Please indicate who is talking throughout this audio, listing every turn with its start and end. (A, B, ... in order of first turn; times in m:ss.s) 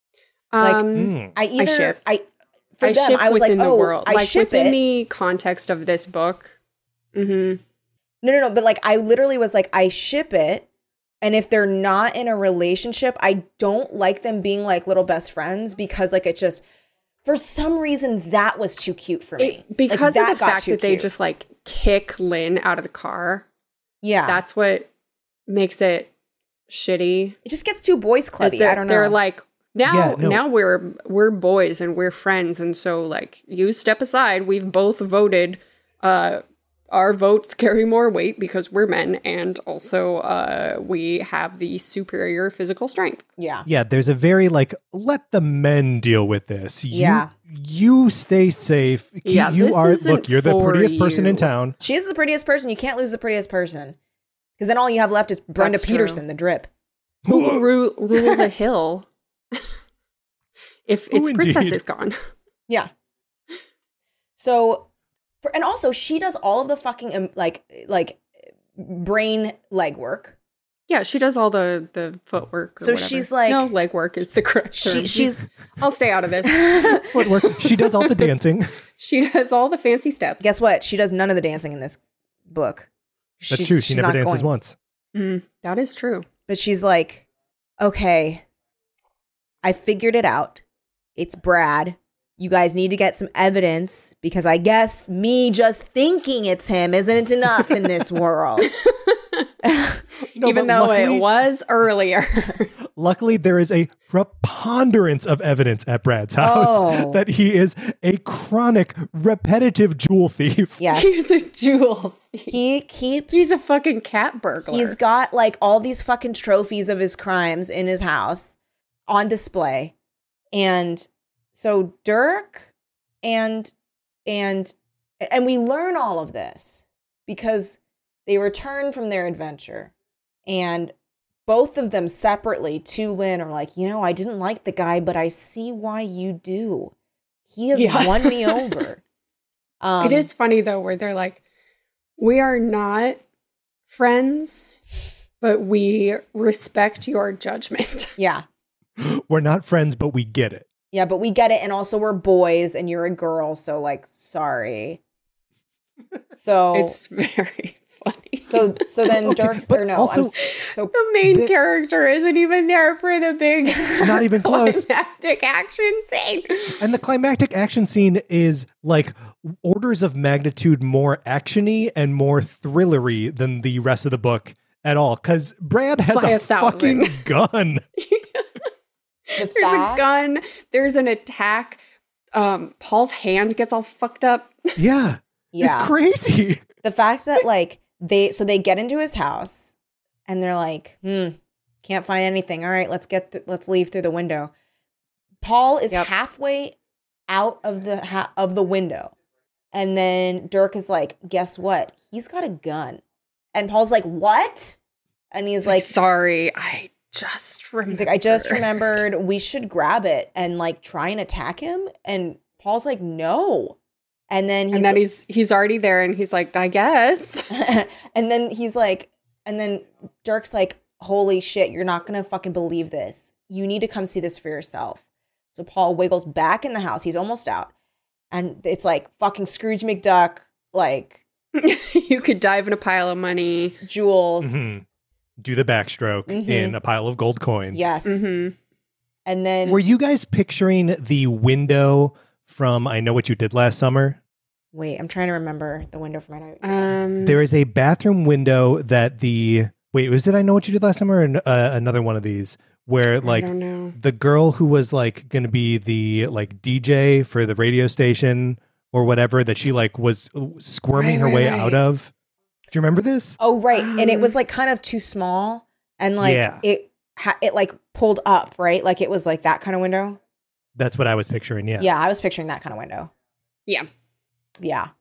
0:00.5-0:02.0 A
0:00.6-0:02.2 B
0:00.9-0:01.3 C
0:02.8-0:04.8 B
0:02.8-0:06.5 A
0:07.1-0:07.6 A
0:08.2-0:10.7 B
0:11.2-0:16.6 B
0:17.2-0:21.1 B
0:19.4-0:23.4 A
0:24.0-0:24.4 B
0:24.2-0:24.9 A
0:25.5-0:26.1 A
0:26.7-0:27.4 A
0:27.4-0:29.2 B
0:28.4-0:43.2 A
0:29.8-0:30.4 C
0:43.4-0:43.6 B
0:43.6-0:51.8 C
0:46.9-0:47.3 B
0:49.2-0:51.5 A
0:51.8-0:54.0 B
0:54.6-0:56.7 B
0:55.6-0:56.2 A
0:57.2-0:57.6 C
0:57.3-0:59.1 A
1:00.9-1:02.2 A
1:01.1-1:01.8 C
1:04.4-1:04.9 B
1:05.4-1:10.3 B
1:10.9-1:18.2 A
1:12.8-1:13.7 B
1:14.7-1:15.4 B
1:16.4-1:17.1 B
1:17.1-1:18.7 C
1:19.0-1:20.4 A
1:20.4-1:22.9 B
1:23.4-1:24.5 B
1:23.5-1:24.8 C
1:25.1-1:26.3 A
1:26.5-1:27.2 B
1:27.8-1:28.4 B
1:29.6-1:30.6 B
1:31.2-1:38.7 B
1:38.7-1:39.5 A
1:39.6-1:40.0 B
1:40.3-1:42.7 A
1:40.4-1:41.2 C
1:43.0-1:50.8 C
1:46.4-1:47.2 B
1:50.8-1:51.2 B
1:50.9-1:52.6 A
1:52.5-1:53.6 B
1:53.3-1:55.0 A
1:54.7-1:58.6 B
1:59.1-1:59.9 B
2:00.5-2:02.7 B
2:03.2-2:03.7 B
2:04.2-2:09.9 B
2:10.4-2:10.9 B
2:11.4-2:16.9 B
2:17.5-2:19.0 B
2:17.7-2:18.8 A
2:19.8-2:20.3 B
2:20.0-2:21.4 A
2:22.2-2:23.2 A
2:23.9-2:24.8 A
2:25.4-2:28.1 A
2:28.2-2:28.4 B
2:29.0-2:30.7 C
2:30.9-2:35.0 B
2:36.4-2:37.0 B
2:36.7-2:38.9 A
2:38.5-2:40.9 B
2:39.2-2:40.3 C
2:40.4-2:46.8 A
2:41.2-2:41.5 C
2:44.0-2:44.8 C
2:46.8-2:57.8 C
2:56.1-2:57.2 A
2:58.0-2:58.7 A
2:59.3-3:01.8 A
2:59.4-3:00.2 B
3:02.3-3:04.7 A
3:04.8-3:06.6 C
3:05.5-3:05.9 B
3:06.8-3:09.7 B
3:10.3-3:14.5 B
3:15.4-3:16.7 B
3:17.3-3:19.1 B
3:19.7-3:23.0 B
3:23.5-3:24.8 B
3:25.3-3:25.9 B
3:25.6-3:28.9 A
3:27.9-3:33.8 B
3:34.3-3:35.0 B
3:34.7-3:37.5 A
3:37.5-3:45.0 B
3:45.5-3:47.7 B
3:48.3-3:51.2 B
3:51.5-3:53.8 A
3:53.5-3:54.6 B
3:54.4-3:54.8 C
3:55.4-3:57.9 C
3:56.3-3:56.8 B
3:57.7-3:58.3 B
3:58.0-3:58.5 A
3:59.2-3:59.8 B
3:59.6-4:04.2 C
4:04.7-4:07.0 B
4:06.6-4:07.4 A
4:07.2-4:22.1 C
4:13.2-4:13.9 A
4:21.0-4:21.8 A
4:22.7-4:23.4 C
4:23.4-4:30.2 B
4:23.7-4:24.3 A
4:26.2-4:26.6 C
4:30.8-4:31.9 C
4:31.8-4:33.1 B
4:34.6-4:34.9 B